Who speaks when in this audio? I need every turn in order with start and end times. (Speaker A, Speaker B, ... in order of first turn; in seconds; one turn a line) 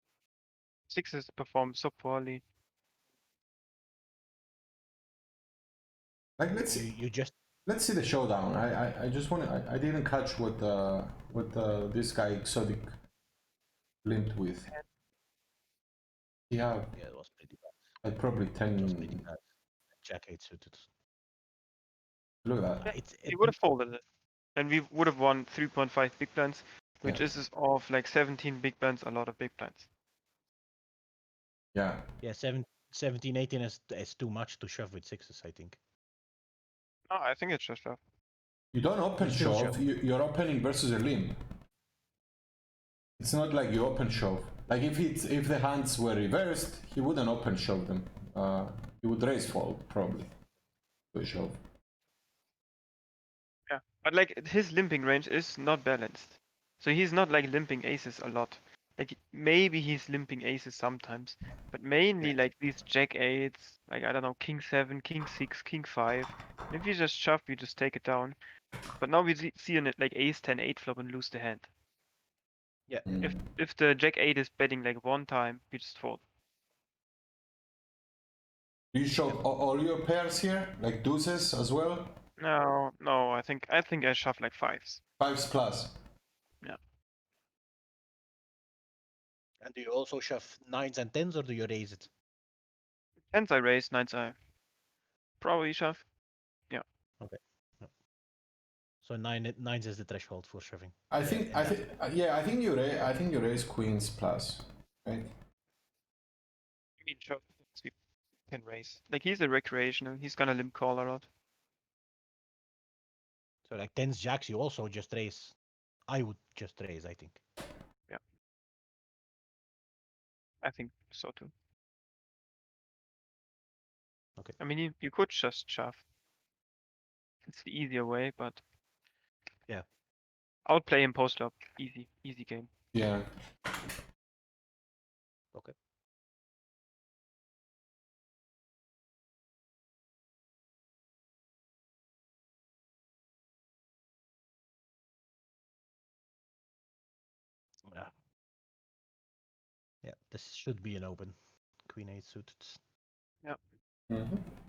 Speaker A: 0.9-2.4
Speaker B: 6.4-6.9
Speaker C: 6.7-7.3
Speaker B: 7.7-12.9
Speaker B: 14.0-14.7
Speaker B: 16.5-16.9
Speaker C: 16.9-17.9
Speaker B: 18.0-19.3
Speaker C: 18.7-20.9
Speaker B: 22.4-22.9
Speaker C: 22.8-23.6
Speaker A: 22.8-24.0
Speaker A: 24.5-29.9
Speaker B: 31.7-32.0
Speaker C: 32.2-35.8
Speaker A: 37.1-38.0
Speaker B: 38.7-41.4
Speaker C: 39.2-39.8
Speaker B: 43.2-50.3
Speaker B: 51.1-51.5
Speaker A: 53.7-68.4
Speaker A: 69.0-71.7
Speaker B: 73.0-73.3
Speaker A: 73.2-76.2
Speaker B: 78.9-82.1
Speaker A: 82.4-85.0
Speaker B: 85.2-86.0
Speaker C: 89.6-92.1
Speaker A: 93.3-94.3
Speaker A: 95.4-96.0
Speaker C: 97.2-97.9
Speaker C: 99.0-101.9
Speaker B: 101.1-105.3
Speaker A: 107.0-107.9
Speaker A: 108.5-111.2
Speaker C: 113.6-115.5
Speaker C: 116.1-117.4
Speaker A: 120.6-121.5
Speaker A: 124.6-126.0
Speaker A: 127.5-128.6
Speaker A: 130.6-132.7
Speaker B: 132.9-133.3
Speaker C: 147.8-148.1
Speaker C: 150.0-152.8
Speaker B: 154.1-154.4